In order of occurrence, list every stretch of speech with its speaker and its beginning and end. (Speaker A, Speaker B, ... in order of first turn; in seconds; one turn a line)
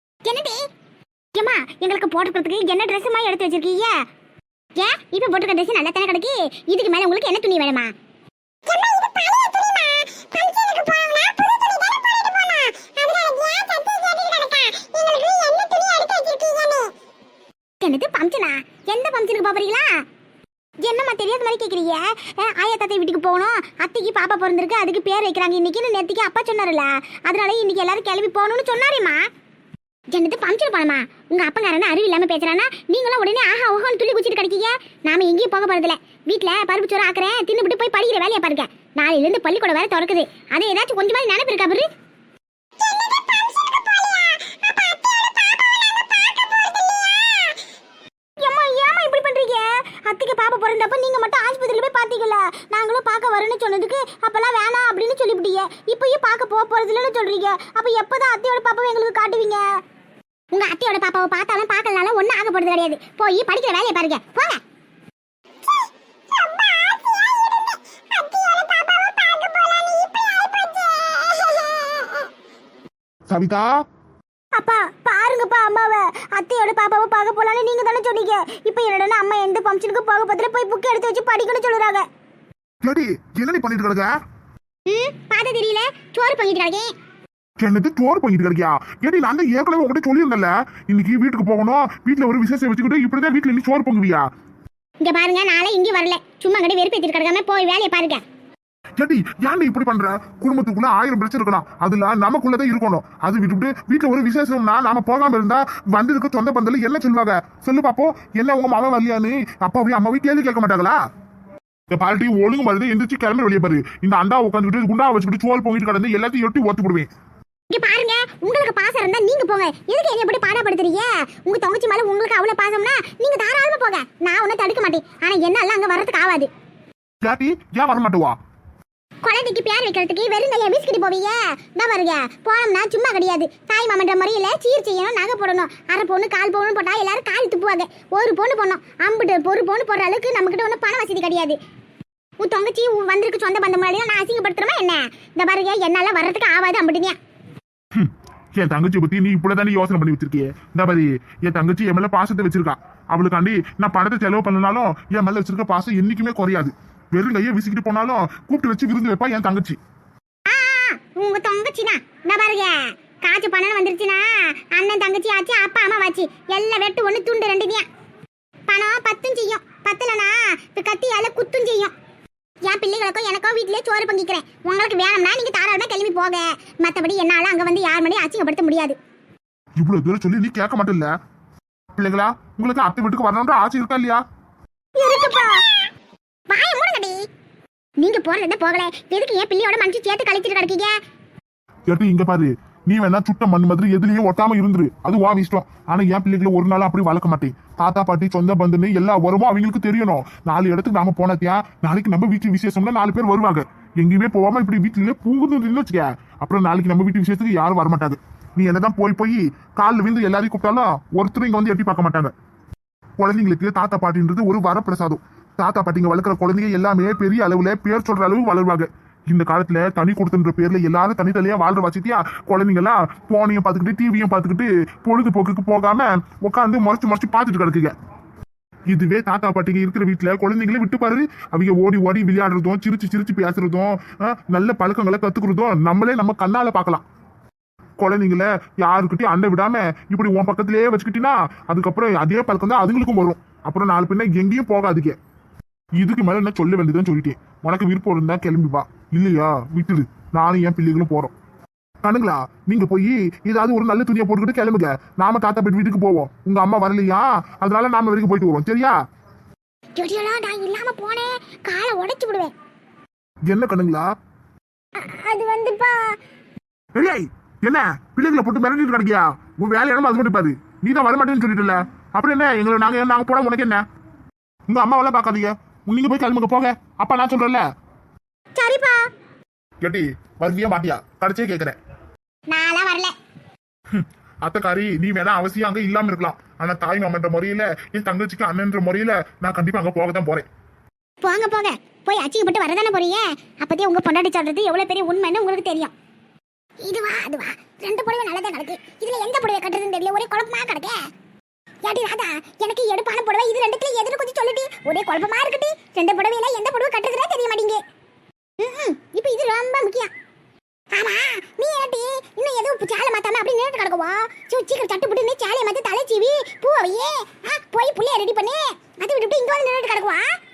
Speaker A: 0.2-0.6
Speaker A: 1.3-3.9
Speaker A: 4.8-7.9
Speaker A: 8.7-16.9
Speaker A: 17.8-19.9
Speaker A: 20.8-29.2
Speaker A: 30.1-41.9
Speaker A: 42.8-47.6
Speaker A: 48.4-59.6
Speaker A: 60.5-64.6
Speaker A: 66.3-72.2
Speaker B: 73.3-73.7
Speaker A: 74.5-82.0
Speaker B: 82.8-84.1
Speaker A: 84.9-86.9
Speaker B: 87.6-94.2
Speaker A: 95.0-98.2
Speaker B: 99.0-111.0
Speaker B: 111.9-117.1
Speaker A: 117.7-126.5
Speaker B: 127.2-128.4
Speaker A: 129.2-141.6
Speaker A: 142.4-147.2
Speaker B: 147.9-159.8
Speaker A: 160.4-167.9
Speaker A: 168.7-171.9
Speaker A: 172.6-179.0
Speaker B: 179.8-181.1
Speaker B: 181.9-184.2
Speaker A: 185.0-185.6
Speaker A: 186.5-187.2
Speaker A: 188.0-190.9
Speaker B: 191.9-212.3
Speaker B: 213.2-227.9
Speaker B: 228.9-237.0
Speaker B: 238.0-245.2
Speaker B: 246.0-251.3
Speaker B: 252.0-259.0
Speaker A: 259.9-262.5
Speaker B: 263.5-264.1
Speaker A: 264.9-266.1
Speaker B: 266.9-273.8
Speaker B: 274.7-277.6
Speaker A: 278.6-279.0
Speaker B: 279.8-281.8
Speaker A: 282.5-283.1
Speaker B: 283.9-290.5
Speaker A: 291.2-295.9
Speaker A: 296.8-301.0
Speaker A: 301.8-307.8
Speaker A: 308.6-310.1
Speaker A: 310.9-320.2